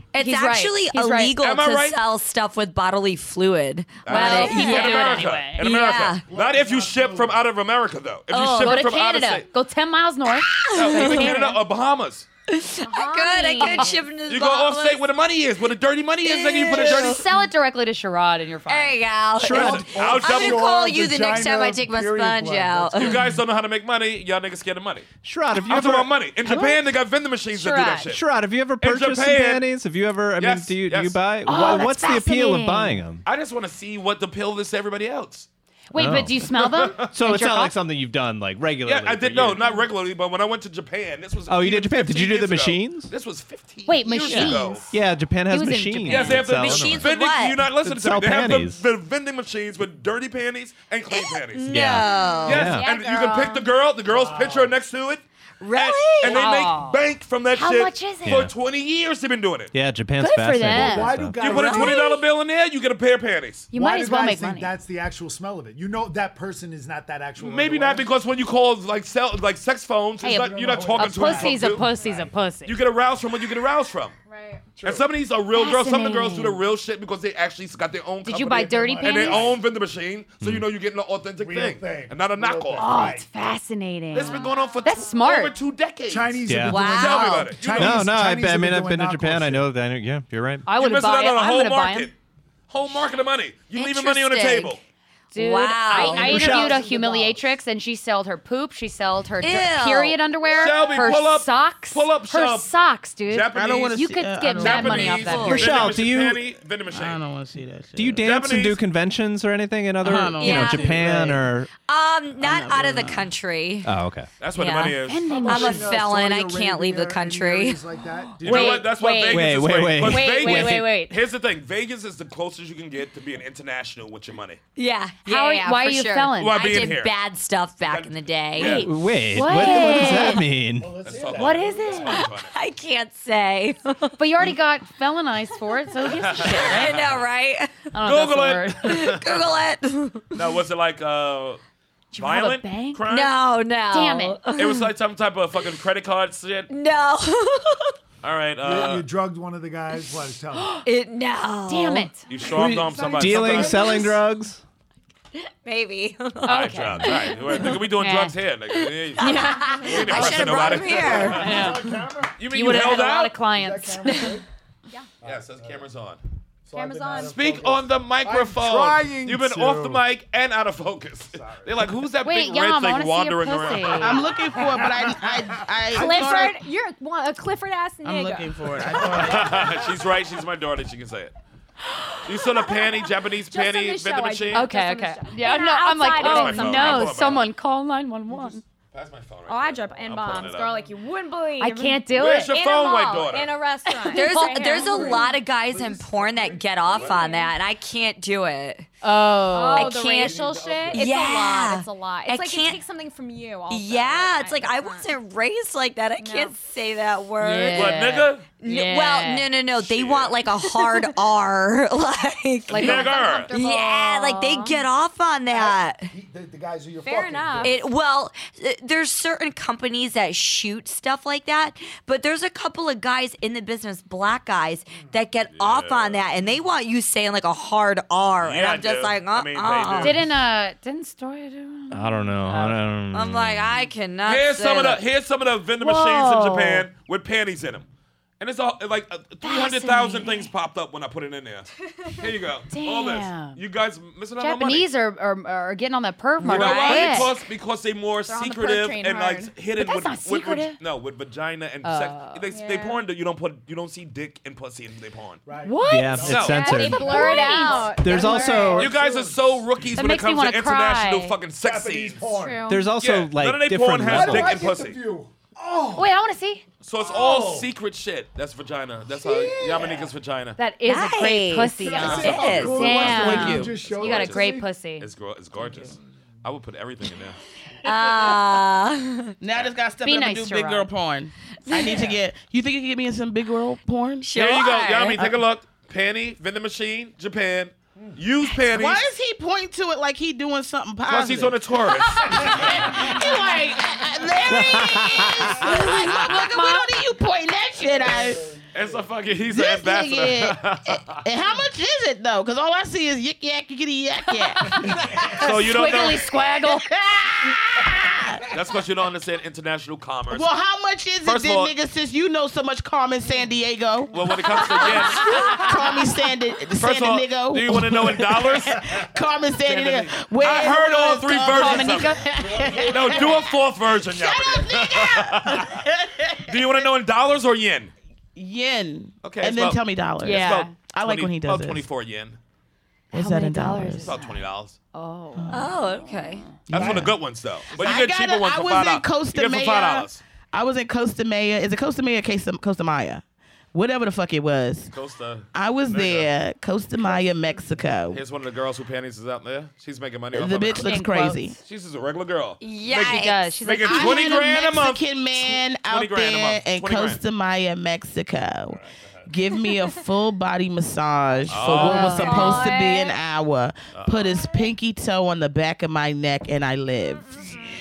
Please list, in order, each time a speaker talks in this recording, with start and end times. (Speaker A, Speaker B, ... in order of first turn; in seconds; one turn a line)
Speaker A: 0.1-6.2
Speaker B: 0.1-1.4
Speaker C: 1.4-2.0
Speaker C: 4.0-9.5
Speaker B: 4.1-5.6
Speaker D: 6.3-7.5
Speaker A: 8.3-8.8
Speaker B: 8.6-11.6
Speaker A: 10.5-11.3
Speaker C: 10.7-12.2
Speaker A: 12.5-15.0
Speaker E: 12.8-14.0
Speaker B: 13.6-13.9
Speaker C: 14.3-17.2
Speaker A: 16.2-17.2
Speaker B: 16.6-19.0
Speaker A: 18.7-23.2
Speaker F: 19.4-19.9
Speaker D: 19.5-23.2
Speaker C: 19.6-20.7
Speaker C: 23.0-25.1
Speaker F: 25.2-26.7
Speaker C: 25.6-28.2
Speaker B: 27.5-28.1
Speaker F: 28.1-33.2
Speaker C: 28.8-29.6
Speaker C: 30.4-31.6
Speaker B: 31.4-33.0
Speaker C: 33.2-35.5
Speaker B: 35.9-37.7
Speaker F: 35.9-36.4
Speaker C: 36.5-37.1
Speaker F: 37.1-39.6
Speaker C: 38.8-44.9
Speaker F: 41.5-43.1
Speaker B: 43.9-44.9
Speaker F: 44.3-47.1
Speaker B: 45.5-46.5
Speaker C: 46.1-59.7
Speaker A: 46.5-47.6
Speaker F: 47.8-48.8
Speaker A: 51.1-52.8
Speaker F: 51.7-52.9
Speaker E: 52.1-53.7
Speaker D: 54.0-54.8
Speaker A: 55.6-56.5
Speaker B: 56.2-57.0
Speaker B: 57.5-58.5
Speaker F: 58.2-58.5
Speaker F: 59.7-61.4
Speaker B: 60.2-61.6
Speaker D: 60.7-62.1
Speaker C: 61.4-63.7
Speaker B: 63.7-64.7
Speaker D: 63.7-68.1
Speaker C: 67.4-71.8
Speaker D: 70.2-72.3
Speaker B: 70.2-72.8
Speaker C: 72.7-74.1
Speaker E: 74.2-74.7
Speaker D: 74.8-75.1
Speaker C: 74.8-83.1
Speaker B: 75.5-76.6
Speaker B: 78.2-79.5
Speaker D: 78.7-79.6
Speaker D: 81.4-83.3
Speaker B: 82.8-85.5
Speaker C: 84.1-88.1
Speaker E: 84.2-84.8
Speaker D: 86.1-89.7
Speaker F: 86.5-86.9
Speaker A: 86.6-87.5
Speaker F: 87.7-90.7
Speaker B: 90.7-92.1
Speaker C: 90.7-92.1
Speaker C: 92.7-94.8
Speaker A: 93.7-94.8
Speaker B: 95.3-105.7
Speaker A: 95.3-96.7
Speaker D: 95.9-97.5
Speaker F: 96.3-96.7
Speaker A: 99.4-100.2
Speaker C: 100.4-102.7
Speaker C: 103.2-104.0
Speaker G: 103.5-105.3
Speaker C: 104.6-107.2
Speaker A: 105.2-105.7
Speaker F: 105.4-106.4
Speaker G: 106.9-108.2
Speaker F: 108.0-111.7
Speaker C: 108.2-108.8
Speaker G: 110.0-111.4
Speaker A: 110.4-111.1
Speaker A: 111.8-113.9
Speaker G: 112.4-113.2
Speaker F: 113.8-114.3
Speaker C: 114.4-115.6
Speaker A: 114.5-117.8
Speaker B: 115.1-116.0
Speaker D: 115.3-118.9
Speaker B: 118.4-121.2
Speaker C: 118.4-124.6
Speaker F: 119.3-121.0
Speaker A: 124.8-128.9
Speaker B: 125.2-126.6
Speaker C: 126.4-127.1
Speaker C: 127.8-128.9
Speaker B: 128.6-130.4
Speaker F: 128.6-131.0
Speaker D: 130.7-132.2
Speaker C: 131.0-132.5
Speaker B: 131.3-132.2
Speaker A: 132.4-134.2
Speaker B: 134.2-137.0
Speaker C: 136.1-137.2
Speaker A: 136.4-137.8
Speaker B: 137.9-138.9
Speaker C: 138.0-139.6
Speaker A: 138.8-140.3
Speaker C: 140.3-141.6
Speaker B: 142.1-143.0
Speaker C: 142.2-143.3
Speaker A: 143.1-144.9
Speaker B: 143.9-144.4
Speaker C: 144.6-146.7
Speaker A: 146.7-147.9
Speaker C: 148.2-149.0
Speaker D: 148.6-150.8
Speaker B: 150.5-150.8
Speaker A: 150.8-152.1
Speaker B: 151.7-152.2
Speaker C: 152.3-153.9
Speaker F: 152.5-154.6
Speaker D: 152.6-154.1
Speaker A: 155.3-158.0
Speaker B: 156.4-158.3
Speaker C: 156.5-161.7
Speaker A: 158.7-161.7
Speaker D: 160.2-162.7
Speaker B: 161.3-161.9
Speaker C: 162.4-163.3
Speaker B: 162.5-164.3
Speaker D: 163.5-164.5
Speaker D: 165.2-165.9
Speaker C: 165.2-166.2
Speaker D: 166.6-170.0
Speaker E: 166.7-167.4
Speaker C: 167.2-174.2
Speaker D: 171.3-171.9
Speaker B: 172.2-174.2
Speaker G: 174.0-176.6
Speaker D: 174.6-175.4
Speaker E: 175.9-178.7
Speaker G: 178.0-179.6
Speaker D: 178.8-180.1
Speaker C: 179.1-181.3
Speaker C: 182.2-184.7
Speaker E: 182.6-187.3
Speaker B: 184.5-188.6
Speaker C: 186.2-187.5
Speaker C: 188.9-190.9
Speaker E: 189.5-195.4
Speaker B: 191.6-192.5
Speaker C: 192.1-193.6
Speaker A: 194.1-198.9
Speaker B: 194.1-194.8
Speaker D: 194.8-197.3
Speaker E: 197.0-197.5
Speaker B: 199.0-200.1
Speaker E: 199.5-205.1
Speaker A: 199.7-202.8
Speaker D: 200.2-201.1
Speaker A: 203.7-208.0
Speaker E: 206.2-206.6
Speaker B: 207.4-209.5
Speaker C: 207.7-208.4
Speaker A: 208.6-216.1
Speaker C: 209.7-210.4
Speaker B: 212.7-213.1
Speaker C: 212.7-213.5
Speaker E: 212.8-214.8
Speaker D: 215.5-217.7
Speaker E: 217.0-217.8
Speaker A: 217.6-230.3
Speaker C: 225.5-226.2
Speaker C: 228.4-230.3
Speaker B: 230.0-232.8
Speaker F: 231.9-233.7
Speaker A: 233.1-235.0
Speaker C: 234.2-237.8
Speaker B: 235.8-236.9
Speaker C: 238.4-244.9
Speaker B: 239.4-240.5
Speaker B: 242.7-243.6
Speaker B: 244.4-247.3
Speaker A: 246.4-247.3
Speaker C: 246.4-255.4
Speaker E: 248.2-249.5
Speaker B: 249.8-250.8
Speaker B: 251.8-252.5
Speaker E: 252.5-253.0
Speaker D: 255.4-259.9
Speaker B: 255.6-258.6
Speaker F: 255.8-258.9
Speaker C: 256.2-256.7
Speaker E: 256.4-258.9
Speaker C: 258.7-262.2
Speaker B: 259.9-261.4
Speaker D: 261.6-262.7
Speaker E: 262.2-262.9
Speaker F: 262.7-264.6
Speaker C: 262.9-265.0
Speaker D: 264.0-266.1
Speaker B: 265.9-266.6
Speaker C: 266.8-270.6
Speaker D: 267.0-267.7
Speaker D: 269.1-270.1
Speaker B: 270.6-275.1
Speaker A: 270.9-273.0
Speaker D: 271.8-274.7
Speaker C: 272.0-277.4
Speaker G: 272.9-273.7
Speaker A: 277.8-279.3
Speaker G: 279.4-284.3
Speaker B: 280.0-280.9
Speaker A: 284.2-285.3
Speaker C: 284.3-289.0
Speaker G: 288.7-291.6
Speaker C: 291.1-292.7
Speaker G: 292.2-298.4
Speaker D: 292.3-293.0
Speaker F: 294.9-295.2
Speaker B: 295.7-297.0
Speaker D: 297.8-299.1
Speaker C: 298.7-301.2
Speaker G: 299.5-306.0
Speaker B: 304.6-306.9
Speaker C: 305.4-306.2
Speaker G: 306.6-308.5
Speaker C: 308.5-310.5
Speaker G: 310.3-314.1
Speaker C: 311.2-311.7
Speaker C: 314.1-315.7
Speaker G: 314.7-326.9
Speaker B: 314.9-315.7
Speaker C: 316.8-318.9
Speaker C: 319.6-322.2
Speaker B: 321.4-322.6
Speaker D: 322.5-323.2
Speaker C: 322.9-325.8
Speaker C: 326.5-327.9
Speaker G: 328.4-331.8
Speaker C: 329.2-332.4
Speaker B: 330.2-330.7
Speaker G: 333.1-334.2
Speaker B: 333.1-334.4
Speaker C: 334.0-334.8
Speaker B: 334.9-336.2
Speaker G: 335.3-335.8
Speaker A: 335.5-336.4
Speaker G: 336.7-337.1
Speaker C: 336.7-340.2
Speaker D: 336.7-337.1
Speaker G: 337.7-343.2
Speaker G: 343.7-344.9
Speaker C: 344.9-346.3
Speaker G: 345.5-348.2
Speaker C: 348.1-350.9
Speaker G: 350.3-351.6
Speaker B: 350.8-351.5
Speaker C: 351.6-357.2
Speaker A: 352.6-353.5
Speaker B: 352.9-354.4
Speaker G: 353.8-367.4
Speaker C: 361.5-362.5
Speaker B: 361.7-362.7
Speaker A: 362.0-363.1
Speaker C: 363.9-364.3